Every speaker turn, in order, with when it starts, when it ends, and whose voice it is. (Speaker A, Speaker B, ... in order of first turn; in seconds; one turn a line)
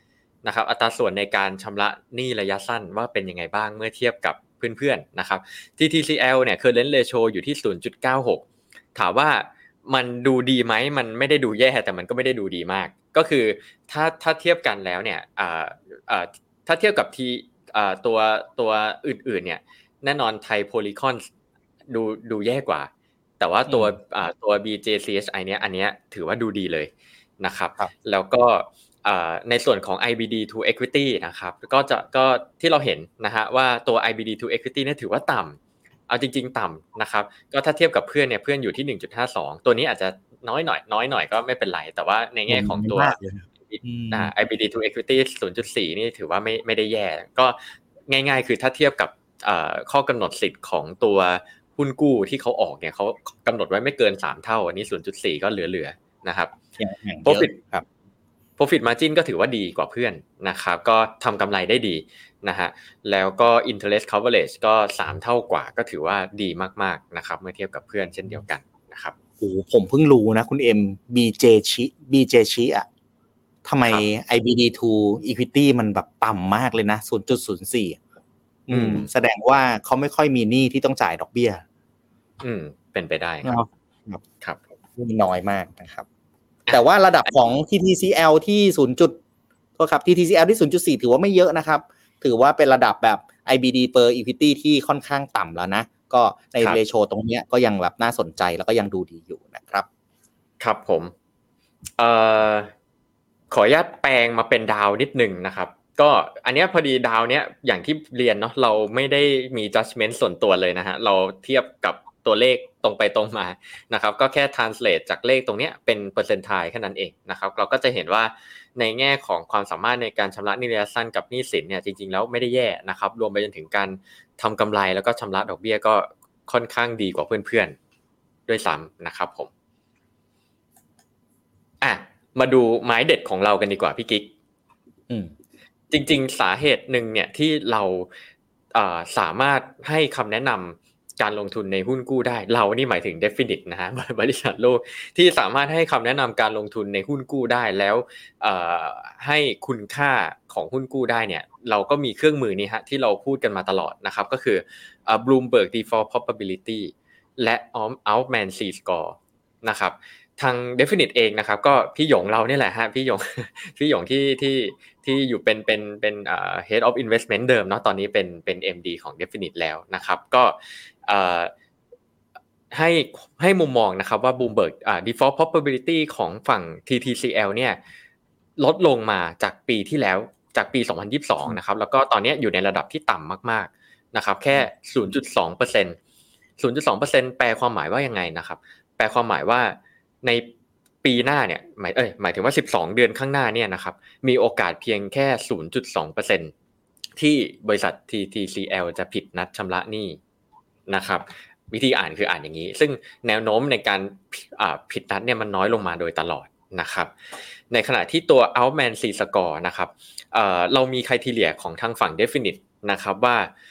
Speaker A: 0.4-8.4
Speaker A: 8.9-21.3
Speaker A: 21.9-35.6
Speaker B: 23.7-23.9
Speaker A: 36.1-56.5
Speaker B: 42.5-44.3
Speaker B: 56.8-57.8
Speaker A: 57.2-57.6
Speaker A: 58.6-69.1
Speaker B: 69.4-72.9
Speaker B: 73.6-78.0
Speaker B: 78.7-81.6
Speaker A: 78.7-79.0
Speaker A: 82.4-83.6
Speaker B: 83.4-84.2
Speaker B: 85.0-86.0
Speaker B: 86.7-89.2
Speaker B: 89.8-99.9
Speaker A: 100.6-101.1
Speaker A: 102.0-102.7
Speaker A: 103.5-127.7
Speaker A: 128.5-129.5
Speaker A: 131.8-134.3
Speaker A: 135.9-138.1
Speaker A: 138.7-171.5
Speaker A: 172.7-177.8
Speaker A: 178.6-186.0
Speaker A: 186.6-190.5
Speaker A: 191.0-196.5
Speaker A: 197.2-200.2
Speaker A: 200.9-207.1
Speaker A: 207.7-213.5